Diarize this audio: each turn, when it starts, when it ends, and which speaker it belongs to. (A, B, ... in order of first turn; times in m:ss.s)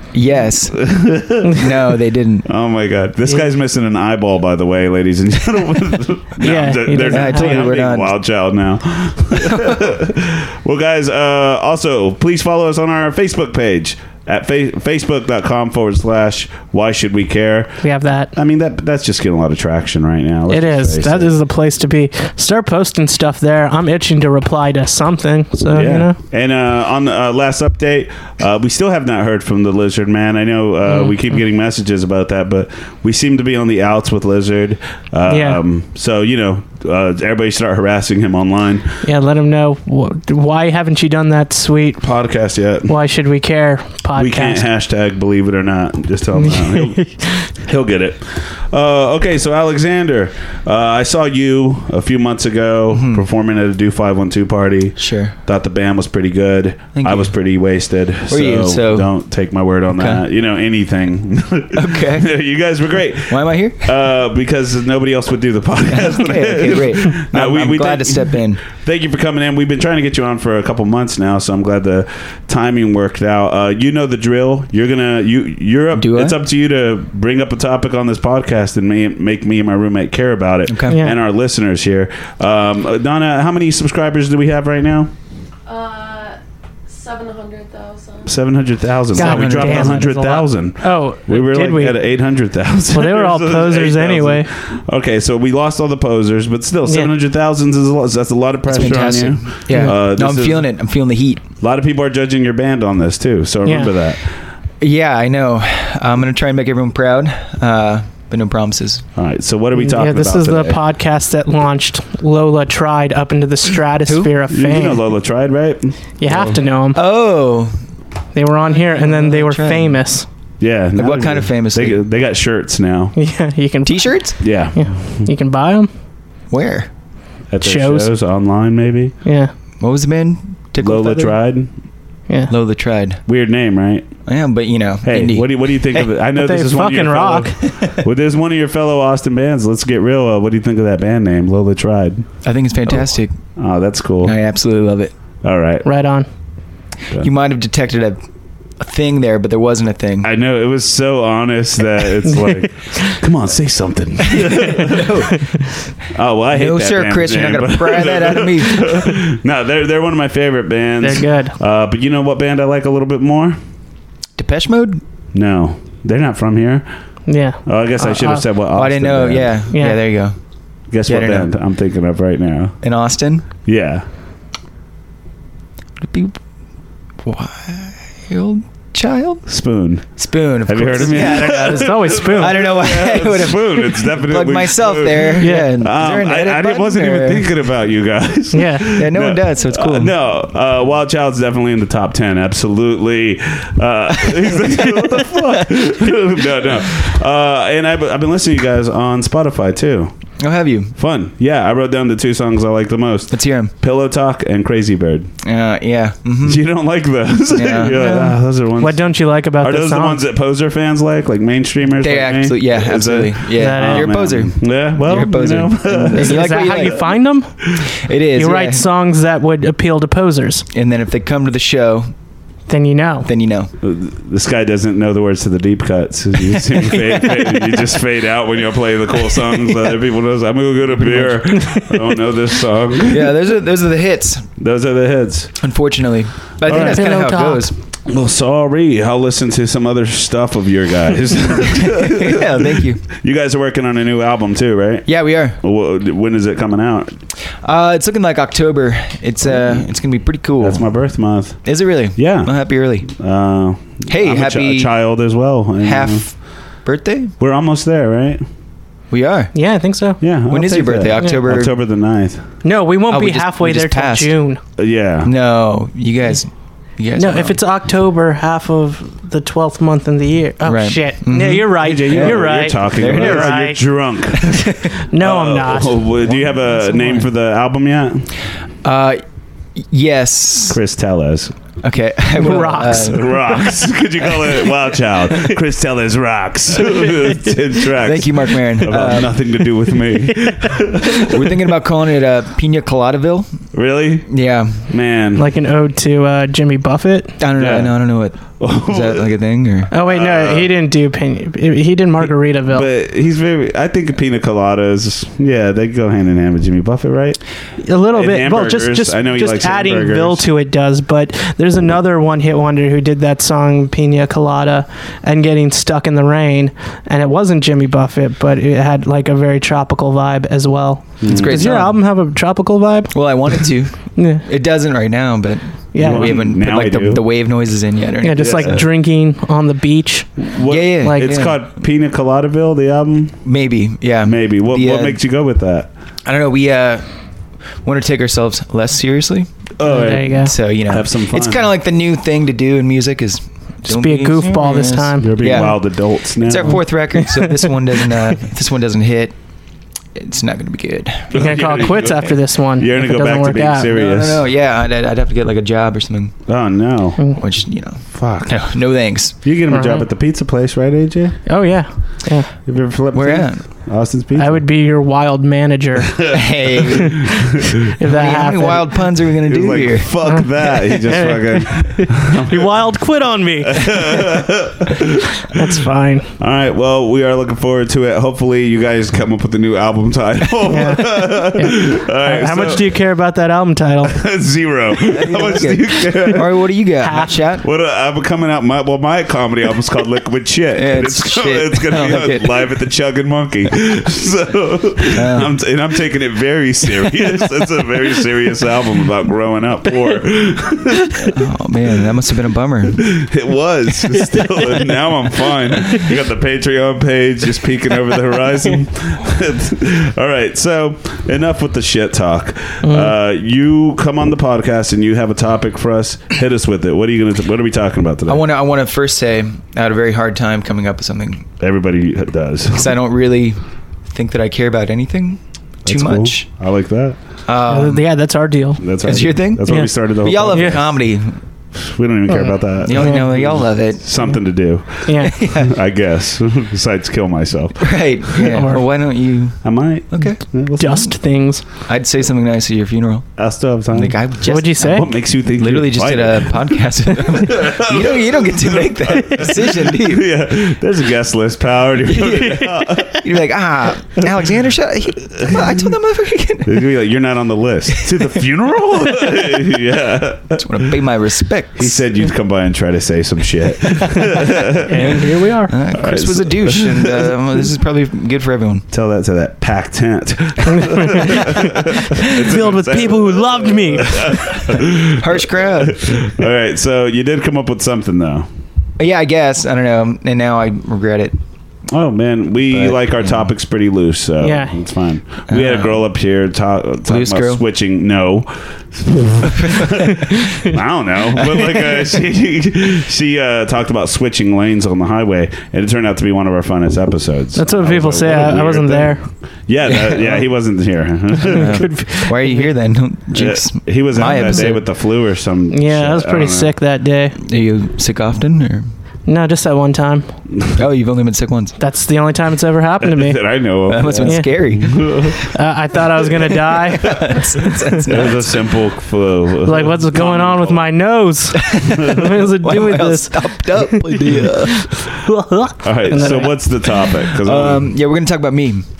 0:00.1-0:00.9 A
0:00.7-0:01.7 B
0:01.6-0:02.5 A
0:02.5-0:21.3 B
0:06.4-0:07.8 C
0:07.0-0:08.1 A
0:17.8-0:18.3 C
0:20.5-0:26.2 C
0:25.7-0:39.0 B
0:30.9-0:31.2 C
0:35.3-0:35.6 C
0:39.0-0:42.0 C
0:42.0-0:42.9 B
0:42.9-0:44.6 C
0:44.2-1:25.1 B
0:46.4-0:47.5 C
0:52.9-0:53.2 A
0:55.0-0:55.4 A
0:56.9-0:57.3 A
0:58.3-0:59.1 A
0:59.9-1:00.2 A
1:01.7-1:02.3 A
1:03.3-1:03.9 A
1:05.9-1:08.6 A
1:16.0-1:16.4 A
1:20.7-1:21.0 A
1:20.9-1:21.2 C
1:25.7-1:28.4 D
1:28.3-1:40.7 B
1:29.2-1:30.0 A
1:29.2-1:32.0 C
1:32.9-1:34.5 C
1:38.7-1:41.4 A
1:41.6-1:44.3 B
1:43.6-1:43.9 C
1:44.8-1:49.0 A
1:49.2-1:50.8 B
1:49.8-1:55.0 C
1:54.1-1:54.3 A
1:54.5-1:56.6 B
1:56.2-1:57.0 C
1:56.9-1:57.7 A
1:58.4-2:00.3 C
1:58.8-2:00.0 A
2:00.6-2:03.2 B
2:01.0-2:02.0 A
2:03.2-2:05.9 C
2:03.8-2:04.4 A
2:04.4-2:05.3 B
2:06.5-2:06.9 A
2:07.5-2:09.1 B
2:07.6-2:08.1 C
2:09.2-2:09.5 C
2:09.8-2:11.4 A
2:10.8-2:11.7 B
2:12.5-2:13.2 A
2:13.3-2:14.1 B
2:14.3-2:16.1 A
2:15.0-2:22.3 B
2:16.4-2:17.8 C
2:22.4-2:23.4 A
2:23.6-2:24.4 B
2:24.2-2:25.1 A
2:25.4-2:25.9 B
2:25.8-2:26.3 C
2:27.2-2:28.2 A
2:28.8-2:30.3 A
2:30.2-2:35.1 B
2:32.4-2:33.0 C
2:34.2-2:35.4 A
2:36.1-2:43.6 B
2:36.5-2:39.0 A
2:41.0-2:41.6 C
2:44.4-2:45.0 A
2:45.3-2:46.9 B
2:47.3-2:48.4 C
2:47.6-2:49.6 B
2:48.8-2:50.4 A
2:49.7-2:50.0 C
2:50.9-2:52.8 B
2:51.1-2:51.5 A
2:52.8-2:53.5 A
2:53.6-2:54.0 B
2:56.0-2:56.4 A
2:57.2-2:59.5 A
2:59.5-3:20.1 B
3:00.2-3:07.5 A
3:01.0-3:02.8 C
3:05.4-3:05.7 C
3:08.5-3:09.0 C
3:08.9-3:10.1 A
3:20.4-3:21.0 A
3:21.0-3:25.3 B
3:23.3-3:23.7 A
3:25.4-3:26.7 A
3:26.4-3:29.0 B
3:27.5-3:28.2 A
3:28.0-3:30.2 C
3:29.6-3:36.6 B
3:32.0-3:37.1 A
3:33.6-3:34.2 C
3:36.2-3:37.7 C
3:38.0-3:38.9 A
3:38.4-3:40.7 C
3:40.7-3:42.1 A
3:42.7-3:43.3 C
3:43.2-3:43.7 A
3:43.8-3:53.4 B
3:46.8-3:47.3 A
3:50.9-3:51.4 A
3:51.6-3:51.8 C
3:53.1-3:54.5 A
3:54.6-3:55.6 B
3:55.6-3:57.7 A
3:56.6-3:57.7 C
3:56.7-3:57.1 B
3:58.1-4:07.2 B
4:01.7-4:03.0 A
4:05.1-4:05.6 A
4:07.6-4:10.9 A
4:09.5-4:09.8 B
4:10.6-4:12.5 B
4:11.6-4:13.1 A
4:13.0-4:16.3 B
4:14.1-4:14.9 A
4:15.8-4:17.3 A
4:17.4-4:18.4 B
4:19.1-4:19.5 A
4:19.5-4:20.2 C
4:20.2-4:22.4 B
4:20.5-4:21.7 A
4:22.6-4:24.6 C
4:23.1-4:24.3 A
4:24.8-4:25.3 B
4:25.2-4:27.6 A
4:27.2-4:33.8 C
4:30.6-4:33.6 A
4:31.7-4:34.6 B
4:34.4-4:34.9 A
4:34.4-4:36.0 C
4:35.2-4:38.3 B
4:36.5-4:37.3 A
4:38.8-4:39.2 A
4:39.8-4:40.8 A
4:40.7-4:41.6 B
4:41.8-4:43.3 A
4:42.4-4:43.3 C
4:43.0-4:51.6 B
4:48.0-4:49.4 A
4:50.3-4:50.8 C
4:51.2-4:53.5 A
4:53.7-4:54.3 B
4:54.3-4:54.9 A
4:54.9-4:55.5 B
4:55.4-4:57.4 C
4:57.4-4:59.9 A
4:57.6-4:57.9 B
4:58.5-4:59.3 B
4:59.9-5:02.9 C
5:00.0-5:00.7 B
5:02.2-5:07.4 B
5:07.8-5:24.5 C
5:08.1-5:10.5 B
5:21.2-5:21.7 B
5:21.3-5:22.0 A
5:23.1-5:28.8 A
5:25.9-5:26.4 C
5:26.0-5:27.2 B
5:28.2-5:31.5 C
5:28.4-5:28.8 B
5:30.4-5:33.4 B
5:30.6-5:31.6 A
5:33.4-5:35.2 A
5:34.2-5:35.9 B
5:36.2-5:37.1 A
5:37.8-5:39.5 A
5:39.8-5:41.7 B
5:39.8-5:40.6 C
5:40.1-5:49.4 A
5:43.9-5:45.8 C
5:45.2-5:46.9 B
5:47.2-5:47.7 C
5:50.2-5:51.5 A
5:51.3-5:54.4 B
5:51.3-5:53.9 C
5:53.9-5:56.4 A
5:56.5-5:57.2 B
5:57.4-5:59.4 A
5:58.1-5:58.8 B
5:59.3-6:01.4 B
5:59.7-6:00.1 C
6:01.5-6:02.5 C
6:02.7-6:04.6 B
6:03.1-6:03.6 A
6:04.4-6:06.4 C
6:06.2-6:07.3 B
6:06.3-6:07.2 A
6:07.8-6:09.0 C
6:08.0-6:10.1 A
6:09.5-6:12.7 B
6:10.2-6:14.4 C
6:13.6-6:15.6 B
6:15.4-6:16.3 C
6:16.4-6:23.0 B
6:20.6-6:24.2 C
6:24.1-6:26.5 B
6:25.1-6:27.6 A
6:27.0-6:27.4 C
6:27.6-6:41.4 B
6:30.7-6:32.6 A
6:35.1-6:35.5 A
6:41.2-6:43.1 A
6:43.0-6:58.4 B
6:44.1-6:44.9 C
6:52.8-6:53.1 C
6:58.3-7:01.5 A
7:01.6-7:02.9 B
7:02.7-7:06.5 A
7:05.8-7:07.2 B
7:07.5-7:08.1 A
7:07.7-7:08.9 C
7:08.8-7:10.9 B
7:09.0-7:11.4 A
7:09.7-7:09.9 C
7:10.5-7:10.8 C
7:11.7-7:18.5 B
7:12.3-7:13.2 C
7:12.8-7:14.0 A
7:15.1-7:15.3 C
7:15.2-7:15.7 A
7:17.8-7:20.4 A
7:18.5-7:18.8 C
7:19.6-7:21.2 B
7:20.8-7:21.6 C
7:21.7-7:23.3 A
7:23.4-7:26.8 B
7:23.9-7:30.3 A
7:24.4-7:25.1 C
7:27.5-7:33.3 B
7:32.1-7:36.9 A
7:35.4-7:35.9 B
7:36.6-7:41.0 B
7:40.5-7:42.0 A
7:41.8-7:45.3 B
7:44.8-7:45.7 C
7:45.7-7:48.9 A
7:45.9-7:47.3 B
7:48.9-7:58.5 B
7:50.8-7:54.8 C
7:55.1-7:56.3 A
7:59.0-8:01.4 A
8:01.9-8:21.9 B
8:02.7-8:03.5 A
8:04.4-8:04.8 C
8:05.5-8:06.0 A
8:07.1-8:07.6 A
8:09.6-8:09.9 A
8:17.6-8:19.3 C
8:21.4-8:22.7 C
8:21.5-8:24.9 A
8:23.3-8:26.8 B
8:24.3-8:24.7 C
8:25.7-8:27.4 C
8:27.4-8:28.9 A
8:29.3-8:30.3 C
8:30.8-8:31.8 A
8:31.8-8:37.8 C
8:33.0-8:35.4 B
8:33.9-8:35.3 A
8:36.9-8:38.7 A
8:38.1-8:40.9 B
8:39.6-8:47.0 C
8:41.5-8:44.8 A
8:45.8-8:47.9 B
8:47.3-8:48.9 A